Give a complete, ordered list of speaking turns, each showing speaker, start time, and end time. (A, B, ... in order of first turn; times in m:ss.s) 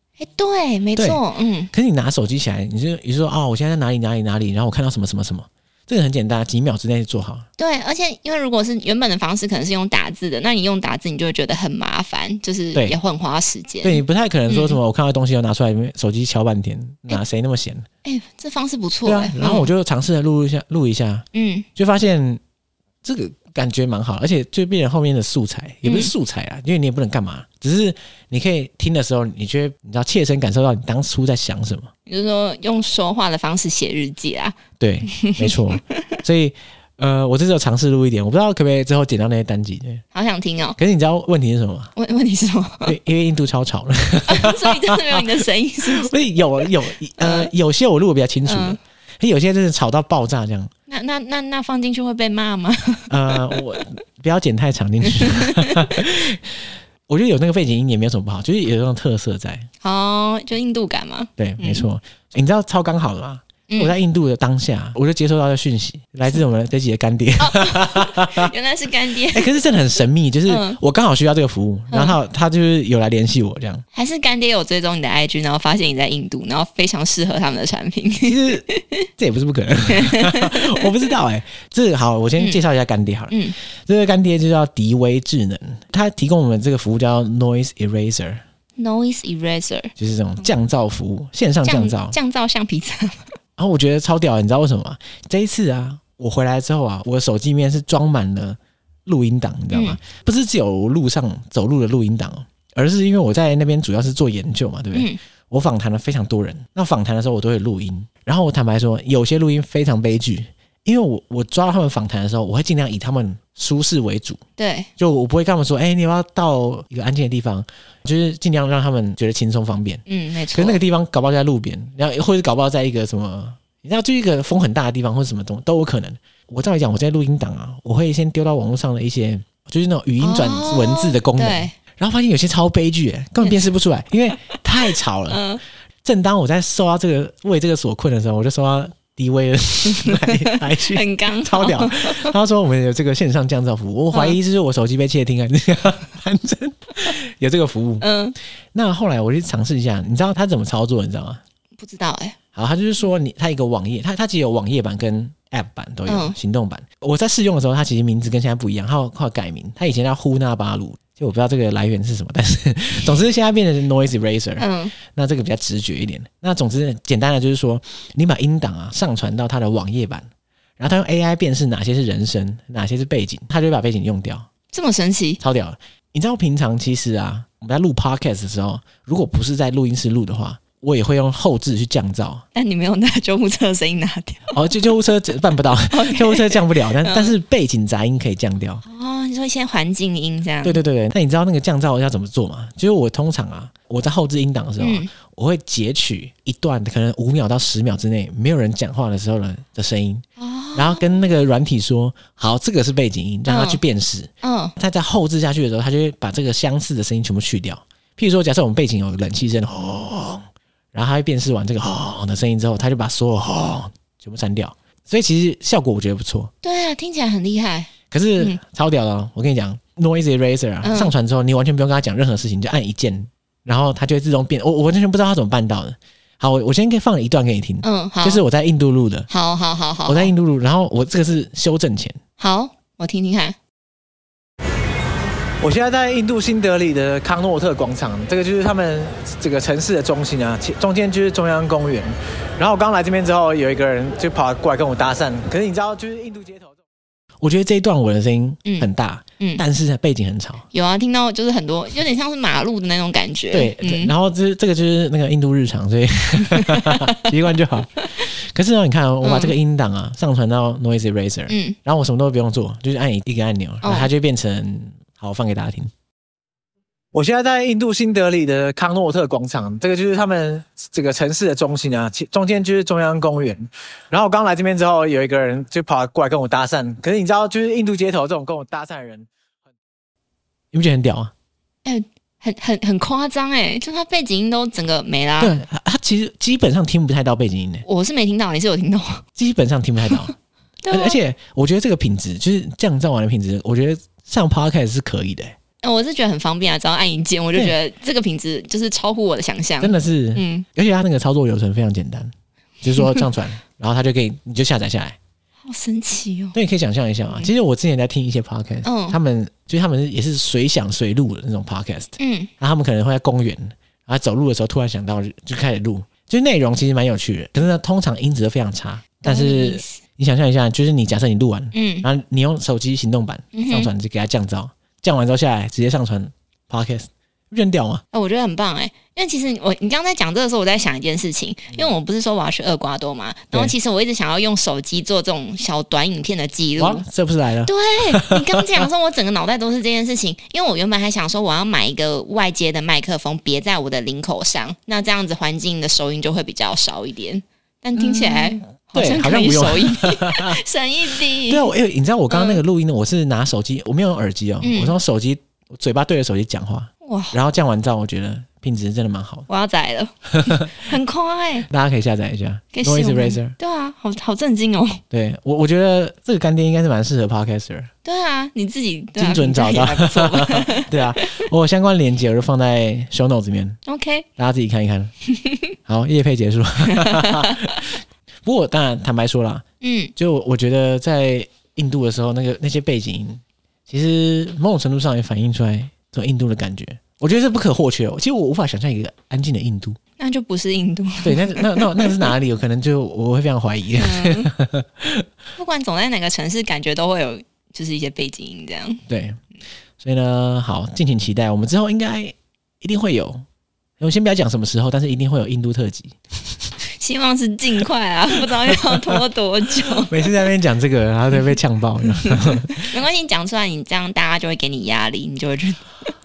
0:00.2-0:01.7 A
0:01.7-0:07.5 B
0:07.6-0:14.8 A
0:13.8-0:17.9 B
0:18.0-0:19.7 A
0:19.1-0:22.4 B
0:21.3-0:21.7 A
0:23.0-0:31.9 B
0:25.8-0:26.1 A
0:32.1-0:36.2 A
0:34.8-0:40.0 B
0:40.1-0:40.8 A
0:40.8-0:41.9 B
0:42.0-0:43.0 A
0:42.8-0:50.7 B
0:44.3-0:46.1 A
0:47.2-0:47.5 A
0:48.4-0:48.8 A
0:50.9-0:53.6 A
0:53.1-0:59.7 B
0:55.1-0:56.0 A
0:59.8-1:01.9 A
1:01.4-1:08.5 B
1:07.4-1:09.5 A
1:09.3-1:13.8 B
1:10.5-1:10.8 A
1:11.9-1:12.2 A
1:13.9-1:19.0 A
1:18.2-1:18.7 B
1:19.2-1:28.4 B
1:19.9-1:20.9 A
1:23.3-1:23.6 A
1:28.8-1:29.9 A
1:30.0-1:32.2 B
1:31.6-1:33.4 A
1:33.6-1:54.4 B
1:39.7-1:40.0 A
1:54.6-1:54.9 A
1:55.0-2:15.4 B
2:00.1-2:00.8 A
2:10.2-2:11.7 A
2:13.4-2:13.7 A
2:15.3-2:15.6 A
2:16.0-2:28.1 B
2:20.0-2:22.3 A
2:24.1-2:24.4 A
2:28.0-2:28.4 A
2:28.7-2:31.4 B
2:31.8-2:32.4 A
2:32.6-2:50.3 B
2:36.1-2:36.4 A
2:44.6-2:44.9 A
2:50.8-2:54.5 B
2:54.7-2:55.4 A
2:55.4-3:02.4 B
3:02.5-3:04.6 A
3:04.5-3:08.8 B
3:05.9-3:07.4 A
3:08.8-3:10.8 A
3:10.6-3:36.5 B
3:14.8-3:15.1 A
3:20.4-3:21.0 A
3:23.5-3:23.8 A
3:24.4-3:24.8 A
3:36.6-3:38.6 A
3:38.1-3:49.3 B
3:40.8-3:41.1 A
3:47.8-3:48.4 A
3:49.3-3:50.3 A
3:50.1-3:52.2 B
3:52.4-3:53.6 A
3:55.6-4:06.8 B
4:07.4-4:10.6 B
4:10.7-4:14.1 A
4:13.5-4:25.9 B
4:16.4-4:17.2 A
4:19.2-4:19.6 A
4:21.5-4:21.8 A
4:23.8-4:24.1 A
4:27.1-4:39.3 B
4:40.7-4:41.3 B
4:41.8-4:45.6 A
4:45.4-4:47.8 B
4:47.8-4:49.2 A
4:49.4-4:50.3 B
4:50.8-4:51.2 A
4:50.9-4:55.5 B
4:55.8-5:00.7 A
4:59.8-5:05.2 B
5:05.6-5:06.6 A
5:06.6-5:28.0 B
5:08.8-5:09.2 A
5:12.2-5:12.5 A
5:19.2-5:20.0 A
5:21.7-5:22.1 A
5:23.5-5:23.9 A
5:28.1-5:37.0 A
5:36.8-5:38.9 B
5:37.7-5:51.7 A
5:48.0-5:50.6 B
5:51.4-5:59.5 B
5:52.3-5:52.6 A
5:54.6-5:55.0 A
5:57.0-5:57.4 A
5:59.5-6:01.7 A
6:00.4-6:00.7 B
6:01.7-6:03.6 B
6:02.7-6:05.0 A
6:05.1-6:07.9 B
6:08.0-6:11.4 A
6:09.2-6:13.8 B
6:13.9-6:14.3 A
6:14.4-6:15.1 B
6:15.3-6:15.7 A
6:15.9-6:19.6 B
6:16.9-6:17.7 A
6:19.8-6:20.1 A
6:20.2-6:30.0 B
6:30.2-6:32.4 A
6:31.2-6:35.3 B
6:34.0-6:34.5 A
6:35.6-6:39.0 A
6:39.1-6:39.4 B
6:40.0-6:43.4 B
6:44.0-6:46.2 B
6:46.9-6:50.2 A
6:48.4-6:49.2 B
6:49.8-6:52.9 B
6:52.1-6:55.9 A